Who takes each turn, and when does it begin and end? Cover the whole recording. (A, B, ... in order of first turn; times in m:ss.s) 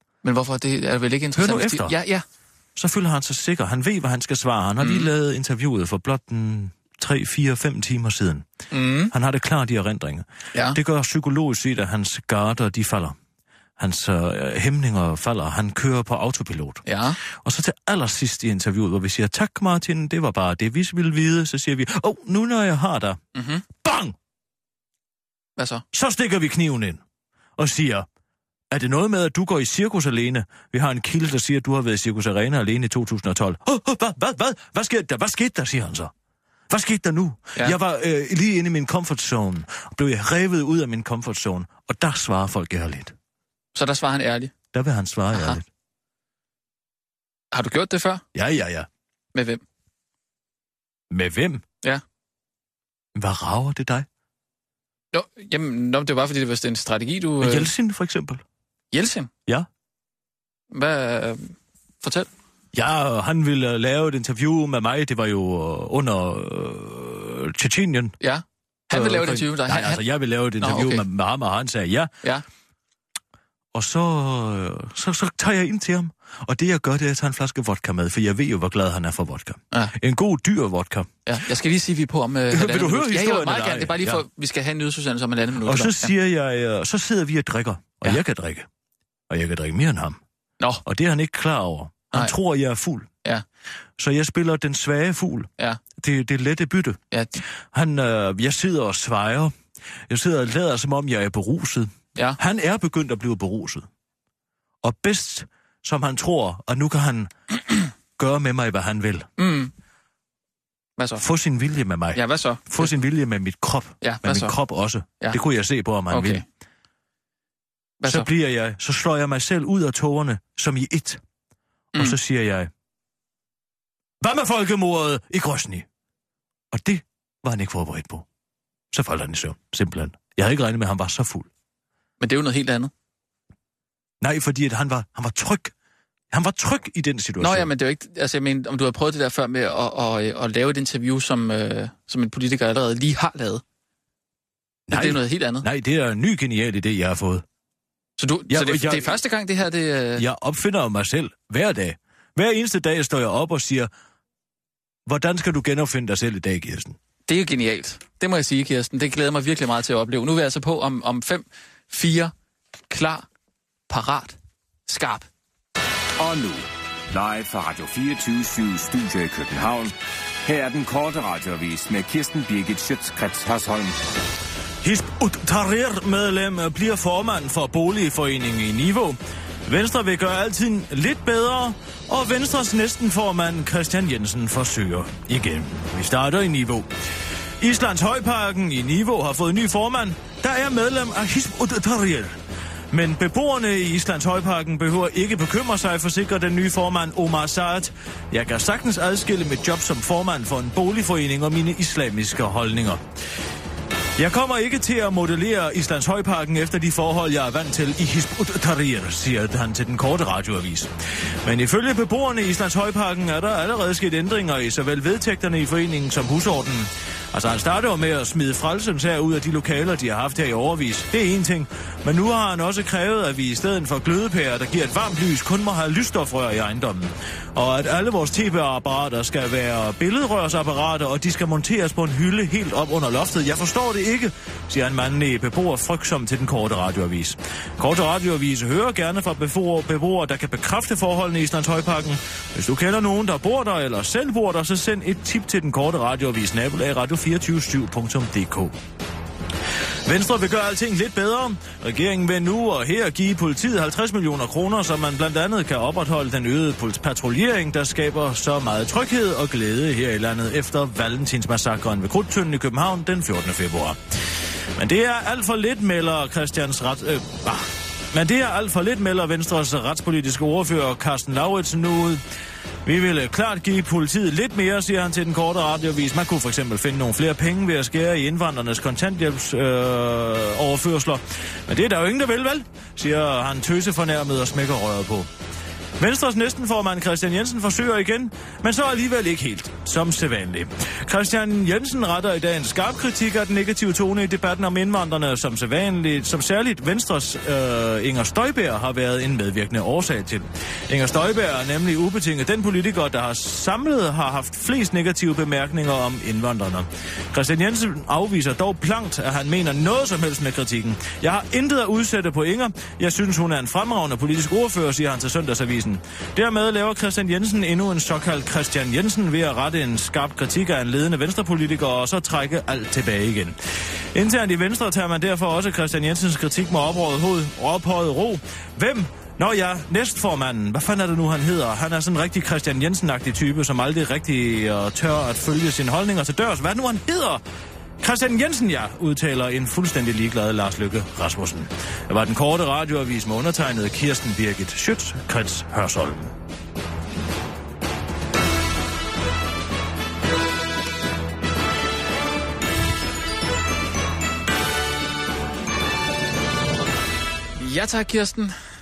0:00.2-0:02.2 A
0:01.4-0:02.0 B
0:02.8-0:08.5 B
0:04.8-0:05.1 A
0:08.7-0:09.1 A
0:09.1-0:13.2 B
0:13.8-0:23.2 B
0:16.9-0:17.2 A
0:23.4-0:23.6 A
0:23.8-0:24.2 B
0:25.6-0:25.8 A
0:25.9-0:27.0 B
0:27.6-0:28.1 B
0:28.7-0:36.1 B
0:36.7-0:43.2 B
0:43.8-0:44.5 A
0:44.7-0:45.7 B
0:45.3-0:45.6 A
0:47.5-0:48.2 A
0:48.3-0:48.9 B
0:49.3-0:49.6 A
0:51.1-0:51.6 B
0:53.2-0:54.1 B
0:55.1-0:57.7 A
0:57.4-0:58.4 B
0:58.9-0:59.3 A
1:00.7-1:02.3 A
1:02.7-1:08.2 B
1:08.2-1:10.0 A
1:08.9-1:12.1 B
1:10.6-1:11.1 A
1:13.7-1:21.1 B
1:21.3-1:26.1 A
1:22.5-1:24.2 B
1:25.6-1:28.7 B
1:29.3-1:30.2 B
1:30.8-1:33.1 B
1:34.0-1:37.0 B
1:37.1-1:37.4 A
1:37.7-1:39.5 B
1:40.1-1:43.9 B
1:44.8-1:47.3 B
1:48.2-1:49.3 B
1:49.4-1:49.7 A
1:51.0-1:51.2 A
1:51.2-1:56.4 B
1:52.2-1:53.0 A
1:54.0-1:54.6 A
1:56.1-1:56.4 A
1:58.0-1:58.3 A
1:58.1-2:01.2 B
2:02.0-2:02.7 B
2:04.2-2:05.9 B
2:06.7-2:08.3 B
2:08.9-2:11.5 B
2:12.2-2:12.9 A
2:14.2-2:15.7 B
2:16.3-2:17.7 B
2:17.4-2:23.6 A
2:24.9-2:27.4 B
2:24.9-2:25.7 A
2:28.2-2:30.2 A
2:28.5-2:29.2 B
2:30.2-2:33.9 B
2:35.1-2:37.0 B
2:37.3-2:42.3 A
2:42.9-2:43.3 A
2:43.9-2:45.3 A
2:46.2-2:49.9 C
2:50.4-2:54.1 C
2:54.8-3:06.9 B
3:07.6-3:12.4 B
3:12.9-3:23.0 B
3:24.2-3:30.9 B
3:31.4-4:08.8 B
4:10.0-4:24.0 B
4:24.8-4:32.2 B
4:32.8-4:45.3 B
4:46.0-5:23.6 B
5:24.1-5:37.4 B
5:38.0-5:46.4 B
5:57.6-5:58.6 A